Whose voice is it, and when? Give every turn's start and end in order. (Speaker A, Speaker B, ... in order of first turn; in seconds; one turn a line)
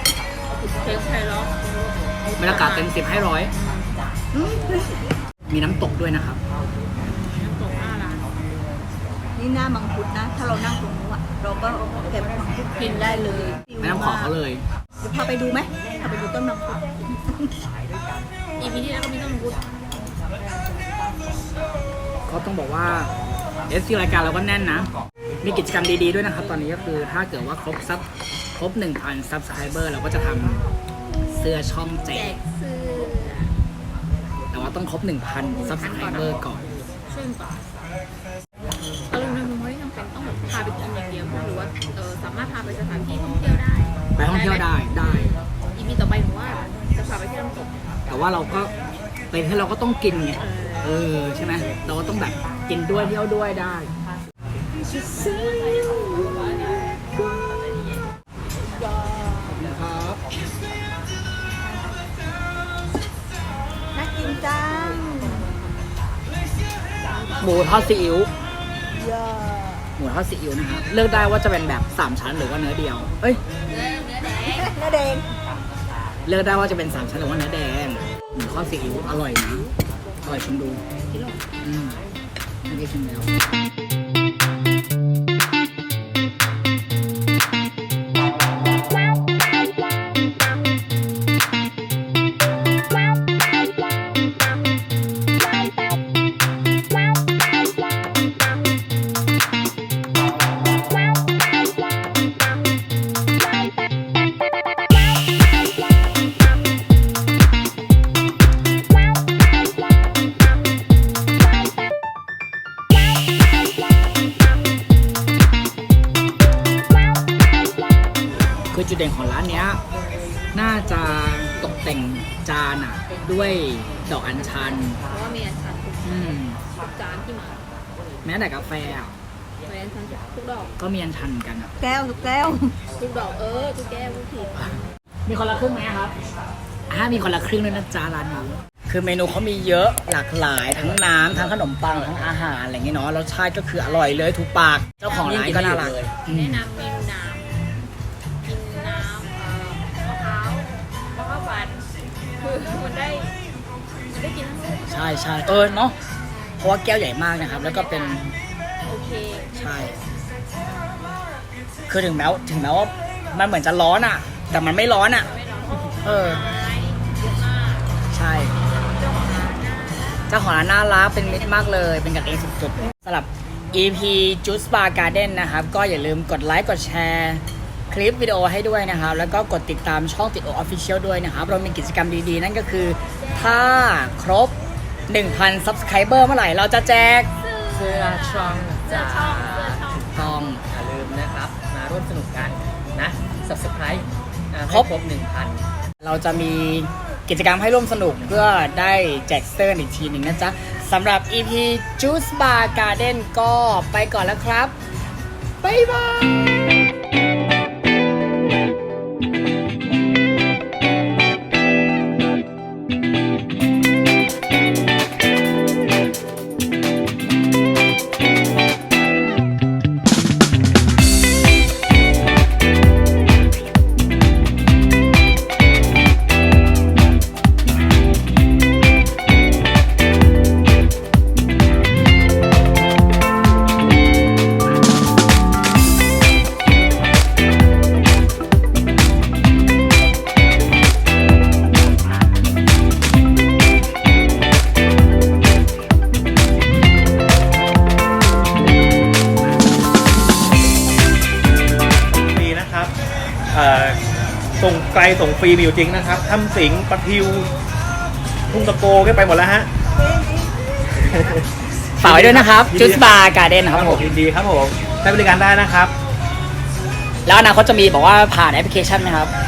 Speaker A: 0.5-2.9
Speaker B: 2.4-3.5
Speaker A: 3.6-3.9
Speaker C: 4.3-5.0
Speaker B: 5.5-6.4
Speaker A: 7.0-8.3
Speaker C: 9.4-14.3
Speaker A: 12.8-13.6
Speaker B: 13.8-14.6
Speaker C: 15.0-17.5
Speaker A: 18.6-19.6
Speaker B: 22.3-23.1
Speaker B: 23.7-24.9
Speaker B: 25.4-30.6
Speaker B: 31.3-32.4
Speaker A: 32.1-33.5
Speaker B: 34.5-36.6
Speaker A: 35.5-36.4
Speaker A: 37.1-37.6
Speaker A: 39.1-47.8
Speaker B: 44.2-45.3
Speaker B: 48.1-48.7
Speaker B: 49.3-53.9
Speaker A: 50.4-51.0
Speaker B: 54.8-56.6
Speaker C: 58.8-59.6
Speaker B: 59.5-60.2
Speaker C: 63.9-65.5
Speaker B: 67.4-68.3
Speaker C: 68.9-69.9
Speaker B: 70.0-73.4
Speaker A: 73.7-74.7
Speaker C: 74.5-75.3
Speaker B: 76.2-79.7
Speaker B: 80.2-80.8
Speaker A: 81.1-81.4
Speaker B: 81.6-82.0
Speaker B: 82.7-83.3
Speaker B: 118.7-119.8
Speaker B: 120.5-125.0
Speaker A: 124.4-127.6
Speaker B: 126.0-126.6
Speaker B: 128.2-129.2
Speaker A: 129.7-130.7
Speaker B: 130.8-131.7
Speaker C: 131.8-132.7
Speaker A: 133.0-134.6
Speaker B: 135.3-136.2
Speaker B: 136.9-146.7
Speaker A: 145.1-145.4
Speaker D: 145.2-146.1
Speaker A: 146.3-147.5
Speaker A: 148.4-151.9
Speaker A: 152.4-153.3
Speaker A: 154.1-154.9
Speaker B: 154.9-156.0
Speaker A: 155.5-155.9
Speaker B: 156.6-158.3
Speaker A: 157.4-158.2
Speaker A: 158.8-159.5
Speaker B: 159.6-160.0
Speaker B: 161.9-165.3
Speaker A: 165.1-167.9
Speaker B: 166.0-166.4
Speaker B: 168.1-168.5
Speaker A: 168.7-170.3
Speaker B: 170.3-184.6
Speaker A: 171.1-172.1
Speaker A: 183.1-183.7
Speaker B: 185.1-187.3
Speaker A: 187.4-190.3
Speaker D: 187.7-190.1
Speaker B: 190.1-190.6
Speaker D: 190.7-195.6
Speaker B: 196.0-204.8
Speaker B: 205.6-206.7
Speaker E: 252.3-252.9
Speaker E: 253.5-254.0
Speaker E: 254.6-257.5
Speaker E: 258.5-259.7
Speaker E: 261.0-261.4
Speaker B: 262.0-264.1
Speaker E: 262.0-265.9
Speaker B: 267.2-269.3